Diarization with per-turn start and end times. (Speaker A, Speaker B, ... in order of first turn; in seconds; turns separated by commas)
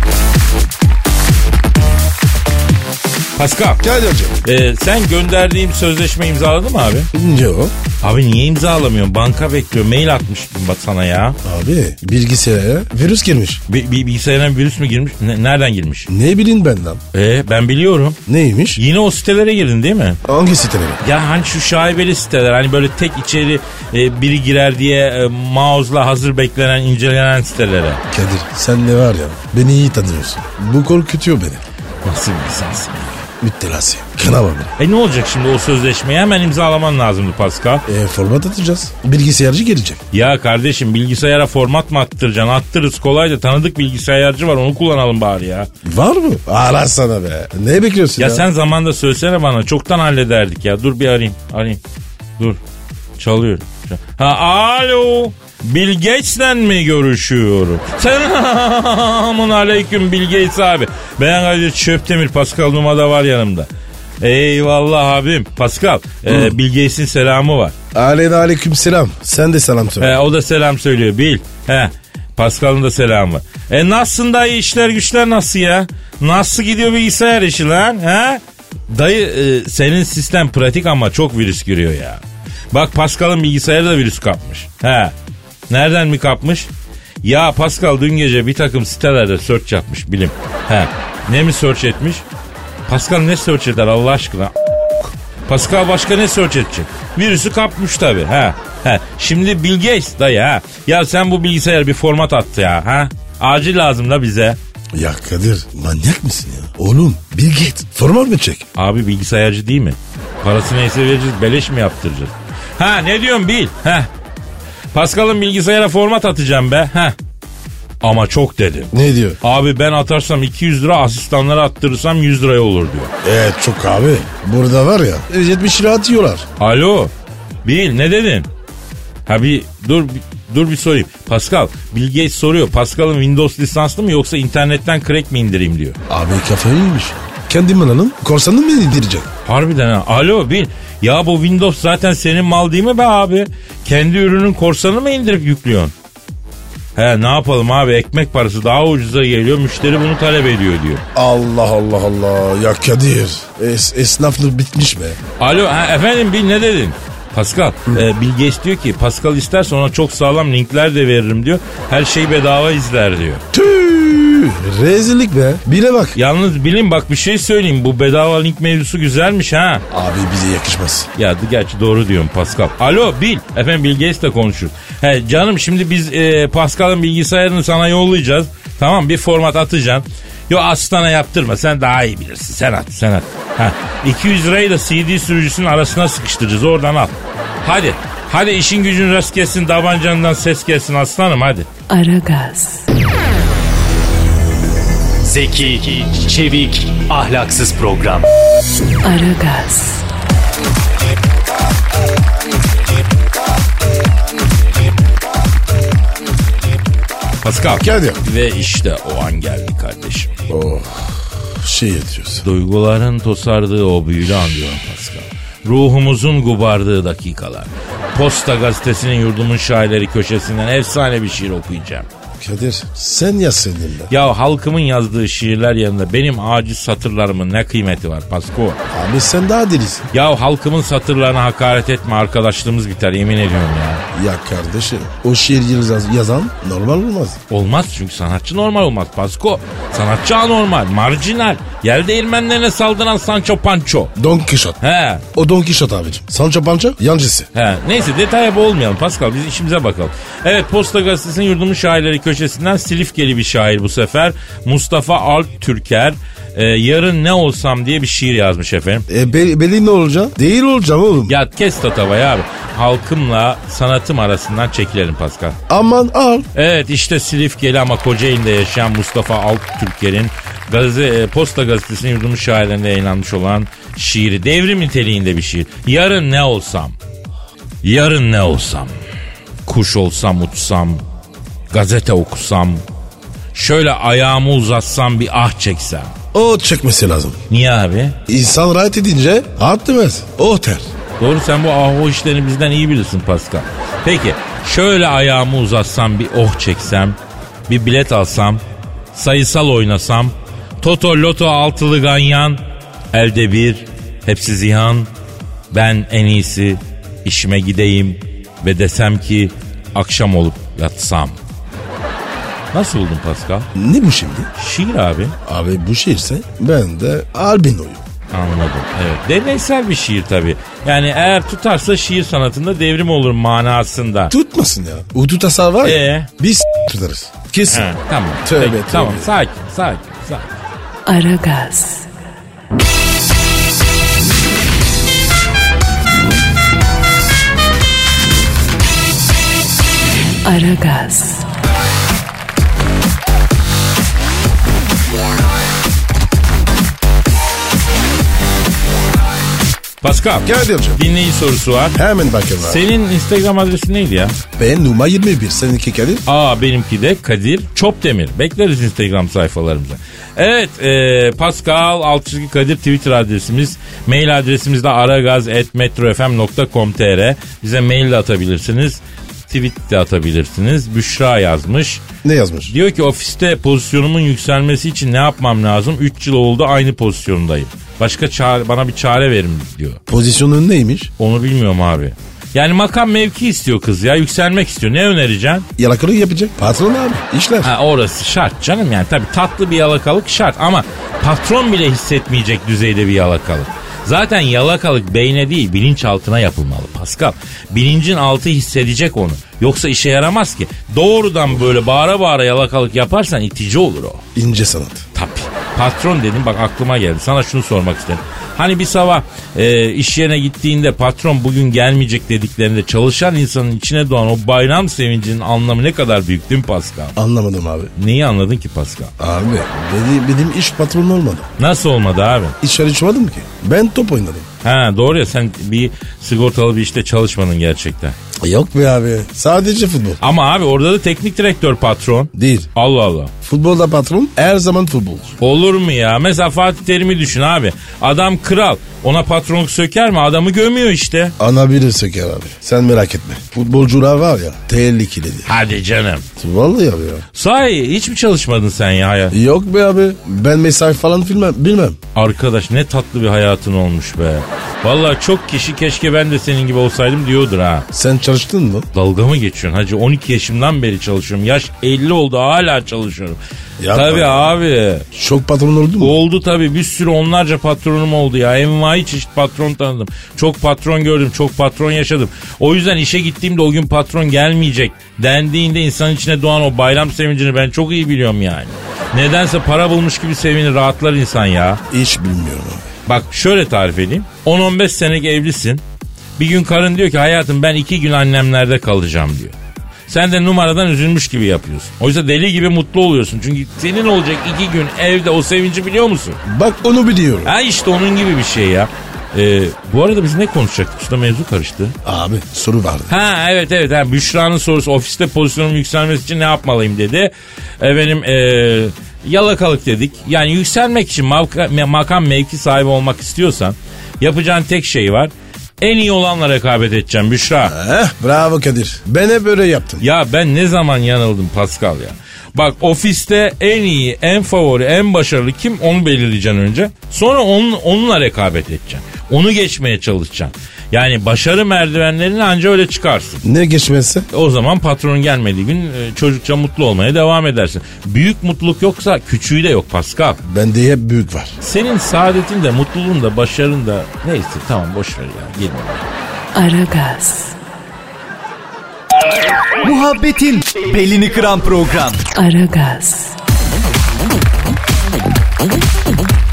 Speaker A: 3.4-3.8, Speaker B: 3.8-4.4, Speaker A: 4.4-7.1, Speaker B: 7.1-7.7, Speaker A: 8.0-11.4, Speaker B: 11.4-13.6, Speaker A: 13.7-16.1, Speaker B: 16.1-17.0, Speaker A: 17.1-18.2, Speaker B: 18.3-18.8, Speaker A: 18.8-20.2, Speaker B: 20.2-21.0, Speaker A: 21.0-28.0, Speaker B: 28.1-31.6, Speaker A: 32.0-33.3, Speaker B: 33.4-34.7, Speaker A: 34.8-37.9, Speaker B: 37.9-40.0, Speaker A: 40.1-45.7, Speaker B: 45.8-48.5, Speaker A: 48.2-51.8, Speaker A: 53.2-63.7, Speaker A: 64.2-67.7, Speaker B: 66.3-66.5, Speaker B: 67.9-70.2, Speaker A: 70.0-82.2, Speaker A: 82.7-85.1, Speaker A: 85.7-86.7, Speaker A: 87.2-92.2, Speaker A: 92.9-94.5, Speaker A: 95.5-104.6, Speaker B: 104.9-108.7, Speaker A: 108.8-114.1, Speaker A: 114.9-117.2, Speaker A: 118.0-123.1, Speaker B: 118.9-119.4, Speaker B: 123.2-126.5, Speaker A: 126.6-127.1, Speaker A: 127.7-128.5, Speaker A: 129.3-136.0, Speaker B: 136.1-139.3, Speaker A: 139.5-145.9, Speaker A: 147.0-151.0, Speaker B: 151.2-155.2, Speaker A: 155.4-163.4, Speaker B: 163.5-166.2, Speaker A: 166.2-169.8, Speaker B: 169.9-171.1, Speaker A: 171.2-191.7, Speaker C: 191.9-192.9, Speaker D: 195.2-198.3, Speaker C: 199.0-200.0, Speaker A: 207.4-210.3, Speaker B: 207.8-208.2, Speaker B: 210.5-212.4, Speaker A: 212.4-222.1, Speaker B: 222.4-224.1, Speaker A: 224.1-228.8, Speaker B: 228.9-230.1, Speaker A: 230.1-234.0, Speaker B: 234.1-237.4, Speaker A: 237.5-244.1, Speaker B: 244.2-244.8, Speaker A: 244.8-245.2, Speaker B: 245.3-247.5, Speaker A: 247.5-259.1, Speaker B: 259.1-261.4, Speaker A: 261.3-265.6, Speaker B: 265.7-266.5, Speaker A: 266.6-276.9, Speaker A: 277.8-278.9, Speaker A: 279.7-281.0, Speaker A: 281.7-282.8, Speaker A: 283.5-286.1, Speaker B: 286.3-287.4, Speaker A: 287.5-288.2, Speaker B: 288.3-290.9, Speaker A: 291.2-297.2, Speaker A: 297.7-298.6, Speaker A: 299.1-302.6, Speaker A: 303.1-305.1, Speaker A: 305.7-311.4, Speaker A: 312.7-313.7, Speaker B: 313.8-314.5, Speaker A: 314.6-315.4, Speaker B: 315.4-318.0, Speaker A: 318.3-324.3, Speaker B: 324.3-327.9, Speaker A: 325.8-326.3, Speaker A: 327.7-330.6, Speaker B: 328.4-329.3, Speaker C: 331.1-332.1, Speaker C: 340.4-341.5, Speaker A: 350.0-352.0, Speaker B: 350.4-351.0, Speaker B: 351.9-352.8, Speaker A: 352.6-354.4, Speaker B: 354.6-356.2, Speaker A: 356.3-372.1, Speaker B: 372.2-372.7, Speaker A: 372.7-380.0, Speaker B: 380.1-381.1, Speaker A: 381.2-385.7, Speaker B: 385.8-387.7, Speaker A: 387.6-404.2, Speaker B: 404.4-405.1, Speaker A: 405.1-417.2, Speaker B: 417.2-417.9, Speaker A: 418.0-419.1, Speaker B: 419.2-421.5, Speaker A: 421.6-422.6, Speaker B: 422.6-424.5, Speaker A: 424.6-428.2, Speaker B: 428.4-430.2, Speaker A: 430.2-433.3, Speaker B: 432.3-432.7, Speaker B: 433.4-435.3, Speaker A: 435.4-441.3, Speaker B: 441.4-445.6, Speaker A: 445.5-446.2, Speaker B: 446.4-447.2, Speaker A: 447.3-449.4, Speaker B: 449.3-452.0, Speaker A: 452.1-457.9, Speaker B: 457.9-458.9, Speaker A: 458.9-463.4, Speaker B: 463.8-464.5, Speaker A: 463.9-465.1, Speaker B: 465.1-466.2, Speaker A: 466.0-481.8, Speaker B: 481.9-482.9, Speaker A: 483.1-485.8, Speaker A: 486.4-489.5, Speaker A: 490.1-496.4, Speaker B: 496.4-497.5, Speaker A: 497.4-502.0, Speaker B: 502.1-503.1, Speaker A: 503.1-517.7, Speaker B: 517.7-520.0, Speaker A: 520.0-533.4, Speaker B: 533.4-534.3, Speaker A: 534.3-540.4, Speaker B: 540.4-541.6, Speaker A: 541.6-546.1, Speaker C: 546.5-547.5, Speaker D: 549.8-552.2, Speaker C: 552.3-553.4